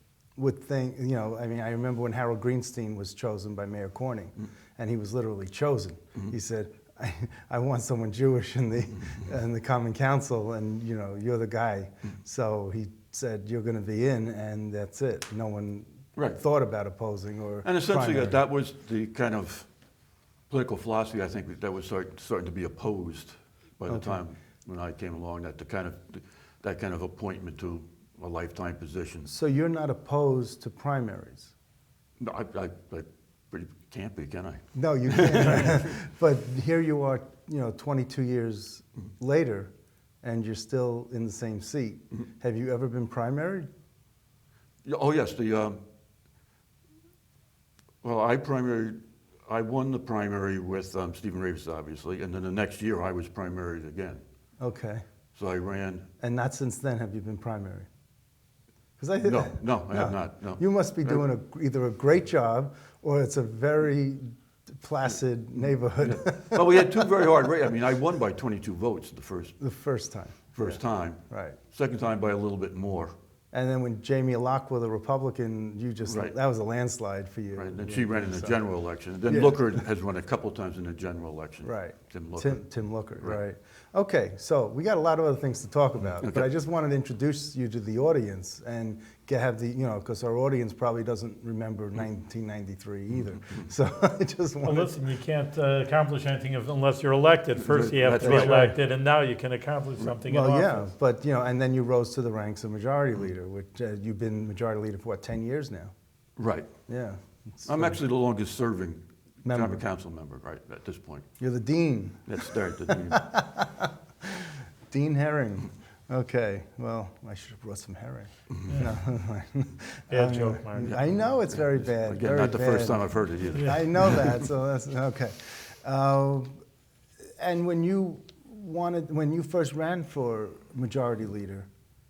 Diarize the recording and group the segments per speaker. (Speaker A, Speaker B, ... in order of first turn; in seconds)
Speaker A: 0.4-18.4, 23.9-24.2, 29.3-31.5, 34.8-39.7, 40.2-43.7, 54.6-55.0, 56.2-57.9, 59.0-67.0, 69.6-71.6, 73.5-78.6, 79.3-79.7, 81.6-95.0, 98.2-98.7, 100.2-105.9, 106.9-108.0, 109.5-109.8, 111.4-126.5, 127.4-131.7
Speaker B: 16.2-16.4, 17.6-19.7, 20.5-29.3, 32.2-36.0, 44.9-45.8, 48.0-54.2, 55.4-56.1, 59.2-61.2, 66.0-69.6, 70.5-73.1, 76.1-76.3, 77.5-82.6, 86.2-86.5, 97.6-98.6, 106.4-106.7, 107.7-111.3, 112.3-113.3, 121.5-124.4
Speaker C: 94.6-100.9, 118.7-118.9, 120.1-121.0